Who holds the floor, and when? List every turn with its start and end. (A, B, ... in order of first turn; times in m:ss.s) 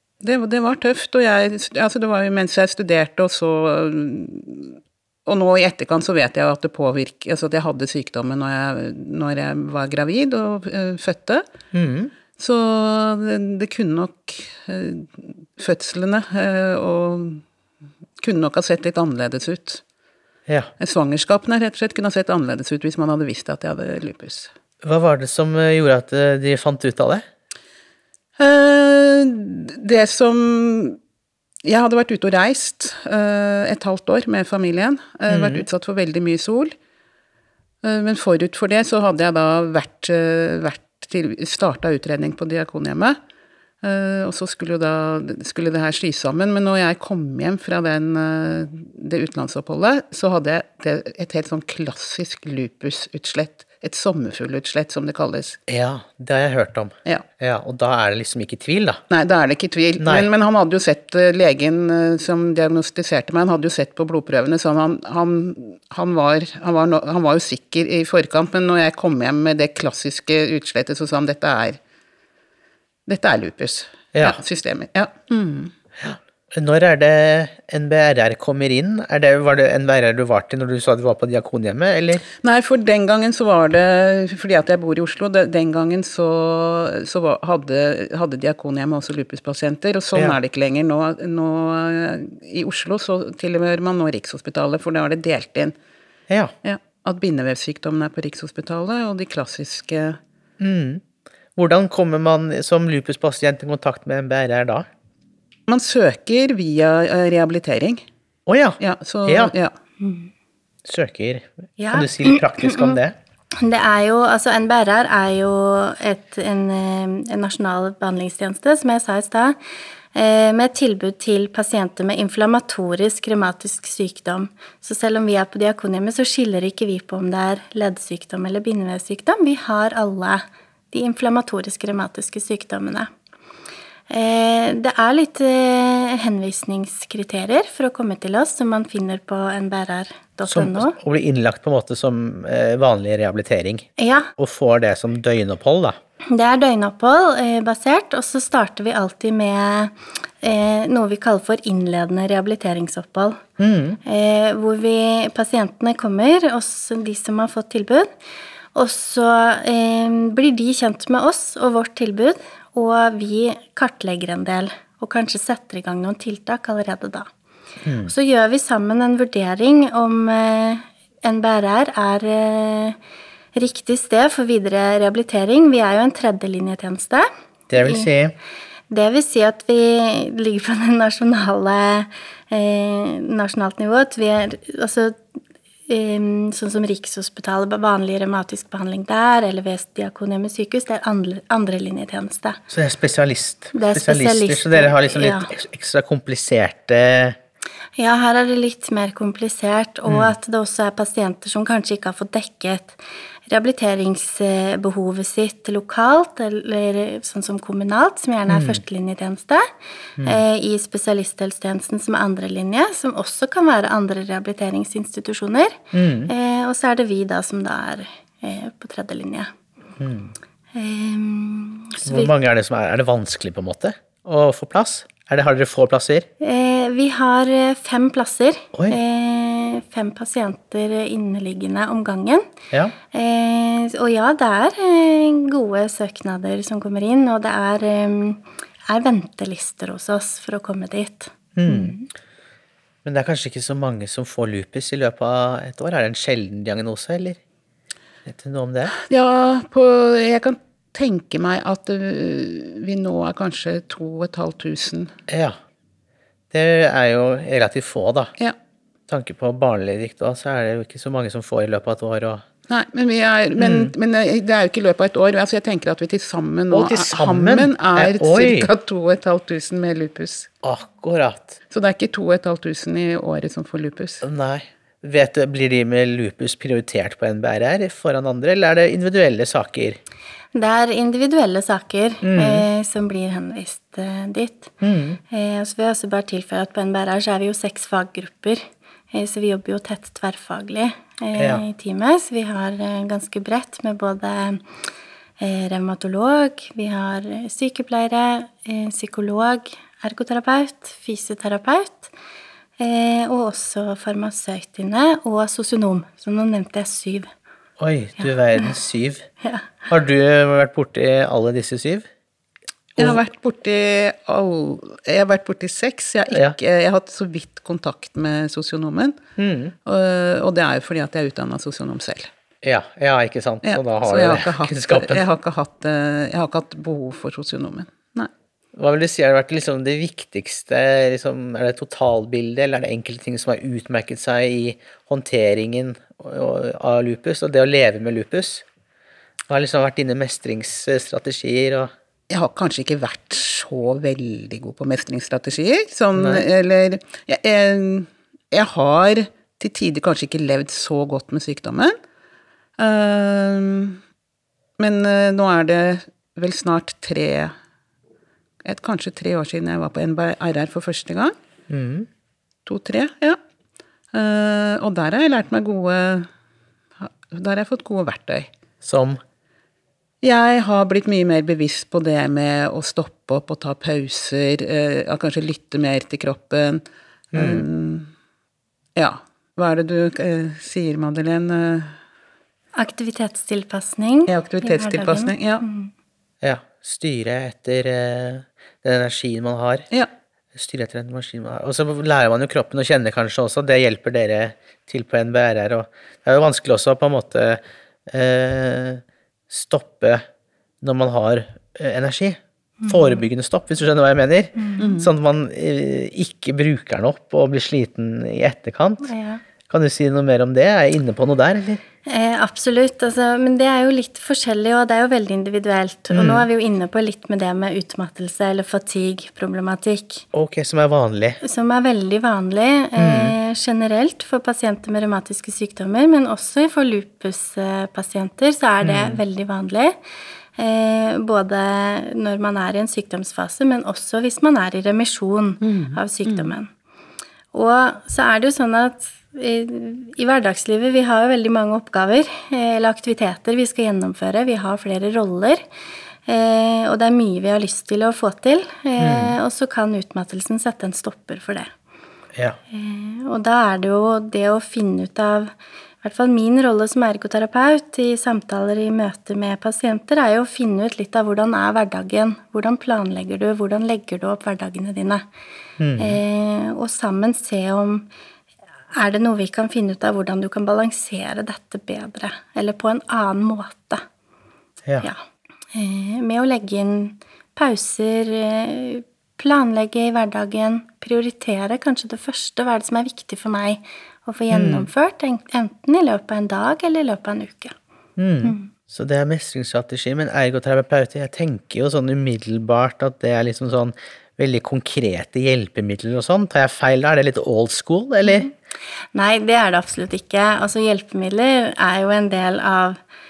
0:00.2-0:11.4 A
0:11.7-0:12.1 B
0:12.4-0:17.4 A
0:18.2-0:19.8 A
0:20.8-0:24.5 A
0:24.8-0:27.2 B
0:28.4-0:31.0 A
0:31.6-0:36.7 A
0:35.3-0:35.6 B
0:37.8-0:43.2 A
0:43.8-0:55.6 A
0:55.7-0:59.0 B
0:59.1-1:11.8 A
1:00.0-1:00.3 B
1:13.1-1:15.7 A
1:14.1-1:14.4 B
1:16.0-1:22.2 B
1:22.4-1:35.7 A
1:36.6-1:40.2 A
1:40.6-1:41.0 B
1:41.6-1:44.9 B
1:45.7-1:48.0 A
1:48.5-1:49.5 B
1:48.8-1:49.7 A
1:50.0-1:50.3 C
1:50.8-1:53.1 B
1:51.8-1:53.0 C
1:53.6-1:59.6 C
2:00.1-2:13.1 C
2:14.1-2:21.0 C
2:20.5-2:26.0 B
2:24.0-2:24.3 C
2:26.3-2:33.4 C
2:33.6-2:34.0 B
2:34.0-2:38.1 C
2:38.7-2:47.3 C
2:47.8-2:48.1 B
2:48.1-2:53.0 C
2:53.5-2:58.1 C
2:57.7-2:58.4 B
2:58.9-3:05.2 C
3:05.9-3:12.6 C
3:12.7-3:17.4 B
3:13.7-3:15.5 C
3:18.0-3:29.6 C
3:20.1-3:20.3 B
3:28.5-3:28.8 B
3:30.2-3:39.5 C
3:35.9-3:36.3 B
3:40.0-3:40.3 B
3:40.7-3:42.3 C
3:42.0-3:46.3 B
3:46.4-3:52.5 C
3:48.7-3:49.0 B
3:53.1-4:02.1 C
4:01.6-4:01.9 B
4:03.0-4:07.4 B
4:08.2-4:08.9 B
4:09.0-4:15.1 A
4:15.3-4:15.6 B
4:16.5-4:18.3 B
4:19.1-4:22.4 B
4:22.7-4:30.5 A
4:23.6-4:23.9 B
4:26.7-4:28.7 B
4:30.6-4:31.6 B
4:31.7-4:34.2 A
4:34.2-4:40.0 B
4:40.5-4:44.7 C
4:42.2-4:42.6 B
4:44.8-4:45.2 B
4:45.3-4:54.6 C
4:51.4-4:51.6 B
4:55.4-5:02.1 C
5:02.8-5:07.3 C
5:07.8-5:09.3 B
5:09.4-5:09.7 C
5:09.9-5:12.1 B
5:13.0-5:19.2 A
5:19.4-5:19.7 B
5:19.8-5:22.3 A
5:22.6-5:25.2 B
5:23.6-5:28.3 A
5:28.8-5:38.6 B
5:39.5-5:41.9 B
5:42.3-5:51.9 A
5:46.2-5:46.4 B
5:52.8-5:54.0 A
5:54.8-5:57.5 A
5:58.6-6:01.3 A
6:01.7-6:02.1 B
6:02.6-6:03.4 A
6:04.1-6:06.3 A
6:07.0-6:08.5 A
6:08.8-6:09.2 B
6:10.2-6:18.1 A
6:17.3-6:17.7 B
6:19.0-6:21.9 A
6:22.8-6:25.9 C
6:24.3-6:25.6 A
6:26.4-6:29.8 B
6:30.5-6:40.2 B
6:40.8-6:49.1 B
6:42.8-6:43.2 C
6:44.6-6:44.9 C
6:44.8-6:45.1 A
6:49.0-6:49.4 C
6:49.7-6:51.8 B
6:52.1-7:00.2 C
6:56.1-6:56.4 B
7:00.3-7:01.4 B
7:01.4-7:10.0 C
7:03.0-7:03.3 B
7:08.8-7:09.2 B
7:10.6-7:16.7 C
7:15.6-7:16.5 A
7:17.5-7:25.6 C
7:26.3-7:31.7 C
7:29.0-7:29.4 B
7:32.7-7:35.5 C
7:36.0-7:45.2 C
7:45.8-7:46.2 B
7:46.0-7:48.1 C
7:49.0-7:54.0 C
7:55.7-8:07.7 C
8:04.5-8:04.9 B
8:08.2-8:18.5 B
8:08.4-8:08.7 C
8:18.2-8:18.5 C
8:19.1-8:23.0 C